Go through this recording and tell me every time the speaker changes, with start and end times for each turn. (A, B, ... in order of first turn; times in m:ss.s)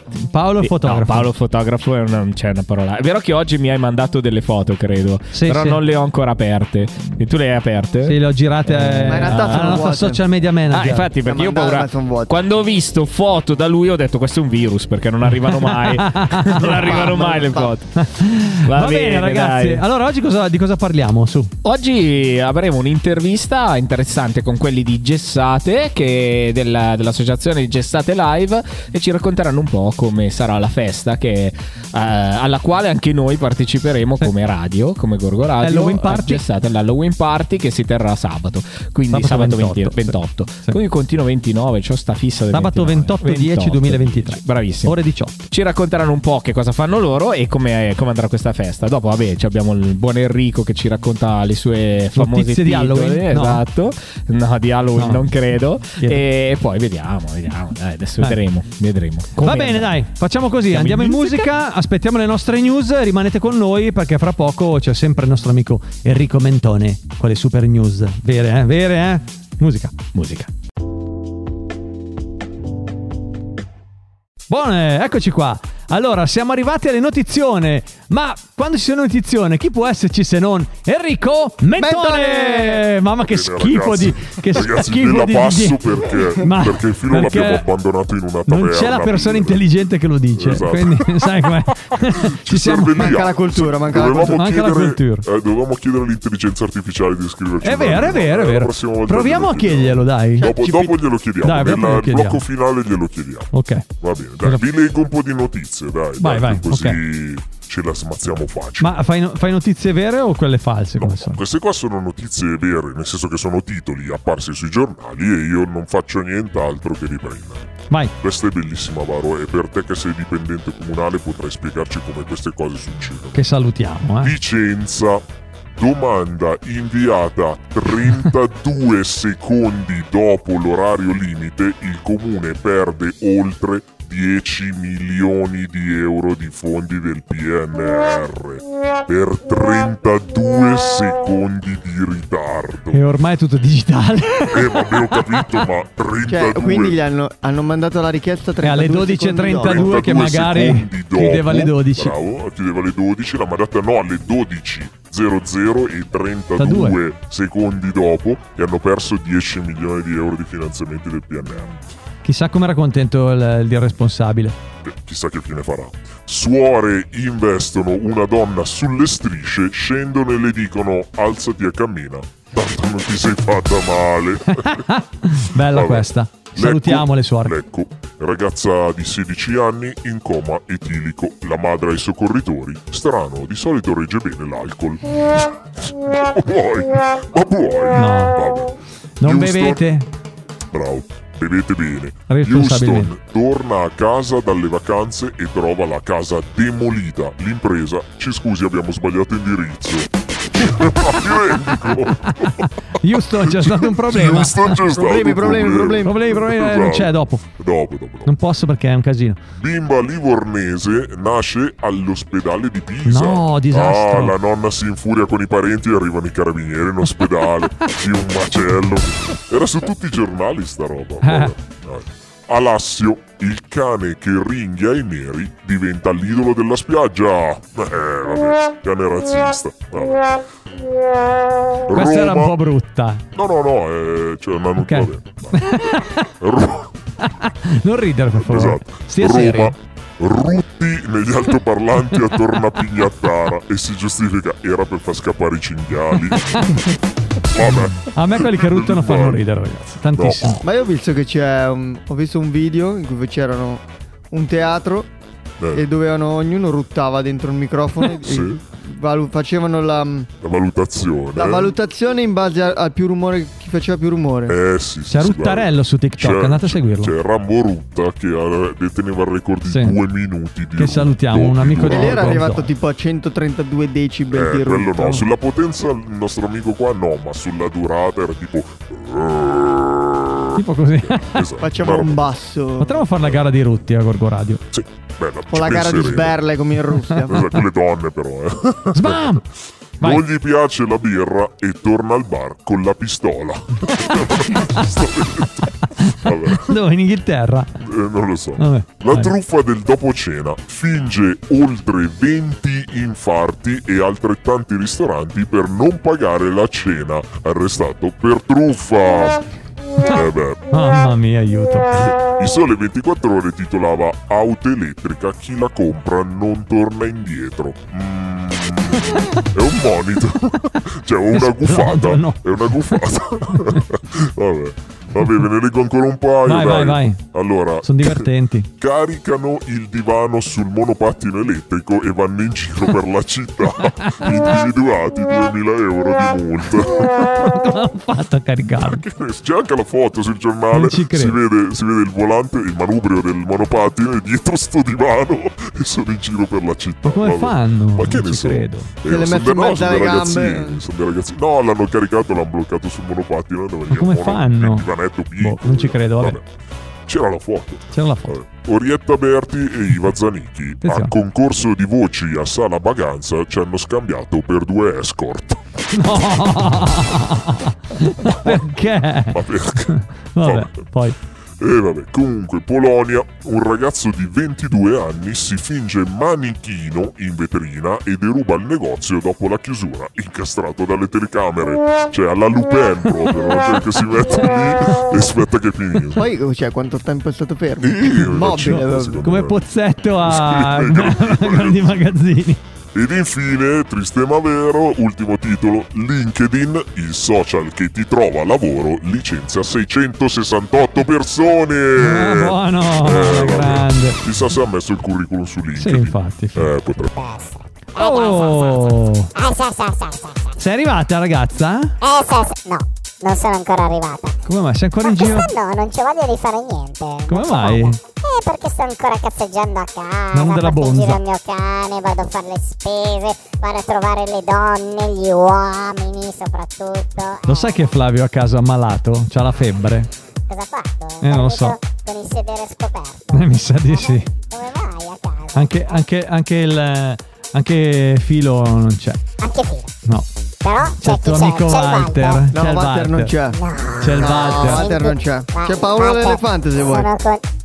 0:00.2-0:01.3 A
0:00.6-0:09.9 B
0:05.3-0:05.8 A
0:08.1-0:11.1 A
0:09.0-0:10.2 C
0:10.7-0:19.8 B
0:11.2-0:12.3 C
0:15.5-0:16.8 A
0:16.6-0:17.7 C
0:18.0-0:21.5 A
0:21.6-1:00.0 B
0:35.6-0:36.4 A
0:39.1-0:40.8 A
0:42.5-0:45.5 A
0:52.2-0:53.6 A
0:55.0-0:55.2 A
0:59.4-1:10.0 A
1:00.7-1:01.5 B
1:10.1-1:10.5 B
1:14.5-1:27.6 A
1:21.8-1:22.9 C
1:23.2-1:29.6 D
1:28.5-1:33.1 A
1:30.4-1:31.3 D
1:32.1-1:49.0 D
1:33.0-1:34.4 C
1:34.3-1:35.3 A
1:37.6-1:40.5 A
1:40.4-1:41.0 C
1:41.4-1:42.4 A
1:43.5-1:43.9 A
1:46.2-1:47.0 A
1:48.8-1:51.4 A
1:51.0-2:03.4 D
2:03.3-2:04.3 A
2:04.2-2:05.2 D
2:05.8-2:23.0 D
2:22.9-2:25.5 A
2:24.5-2:27.0 D
2:26.3-2:30.2 C
2:28.6-2:32.2 A
2:29.6-2:41.8 D
2:36.6-2:37.0 A
2:42.2-2:44.6 A
2:44.8-2:55.0 D
2:54.6-2:57.6 A
2:55.6-3:09.9 D
3:08.0-3:08.4 A
3:09.2-3:10.1 A
3:10.7-3:22.7 D
3:12.3-3:13.1 A
3:21.7-3:24.8 A
3:23.3-3:28.3 D
3:24.9-3:26.2 C
3:26.0-3:27.5 A
3:28.2-3:29.4 A
3:29.6-3:50.4 D
3:33.0-3:34.4 A
3:41.2-3:41.5 A
3:51.9-3:52.6 D
3:51.9-3:53.2 A
3:53.4-3:56.9 D
3:54.8-3:56.3 A
3:57.2-3:59.8 A
3:58.4-4:06.9 D
4:07.4-4:09.5 D
4:07.6-4:10.6 A
4:10.1-4:10.6 D
4:10.6-4:15.1 C
4:15.6-4:15.8 D
4:15.8-4:20.3 C
4:18.2-4:18.6 D
4:20.4-4:21.8 D
4:21.4-4:24.6 C
4:24.5-4:32.5 D
4:25.1-4:27.1 A
4:29.7-4:30.0 A
4:30.8-4:32.7 A
4:31.9-4:35.3 C
4:34.3-4:42.3 D
4:40.6-4:41.5 A
4:41.6-4:43.1 C
4:42.8-4:44.6 A
4:44.7-4:46.5 D
4:45.5-4:47.6 C
4:47.3-4:49.4 D
4:48.9-4:49.4 A
4:50.0-4:56.8 D
4:56.0-4:57.7 A
4:57.8-5:09.4 D
4:58.6-4:59.4 A
5:10.0-5:10.7 D
5:10.7-5:12.2 A
5:12.2-5:37.5 D
5:21.3-5:23.0 A
5:23.5-5:23.8 A
5:26.5-5:27.2 A
5:27.8-5:28.7 A
5:34.0-5:34.4 A
5:37.1-5:39.0 A
5:38.8-5:56.4 D
5:40.7-5:41.4 A
5:47.0-5:48.9 A
5:49.1-5:50.8 C
5:53.9-5:56.4 A
5:57.1-6:05.6 D
5:57.9-5:58.4 A
6:00.8-6:01.1 A
6:05.9-6:11.2 A
6:08.3-6:08.6 D
6:09.2-6:10.9 D
6:11.6-6:26.2 D
6:26.2-6:29.2 C
6:27.8-6:29.6 D
6:28.6-6:32.6 A
6:30.2-6:32.2 D
6:33.0-6:47.2 D
6:42.0-6:44.2 A
6:45.8-6:46.7 A
6:47.0-6:50.6 E
6:48.0-6:49.3 A
6:50.6-6:52.0 A
6:52.0-6:54.4 E
6:54.5-6:55.5 A
6:55.0-7:07.9 E
6:57.3-6:58.0 A
7:00.3-7:01.2 A
7:07.5-7:10.1 A
7:10.5-7:16.0 E
7:11.2-7:11.8 A
7:13.3-7:14.3 A
7:15.5-7:19.2 A
7:19.4-7:19.9 E
7:20.6-7:22.5 E
7:20.9-7:23.3 A
7:22.5-7:23.6 C
7:23.5-7:27.4 E
7:24.0-7:24.9 A
7:24.1-7:27.1 C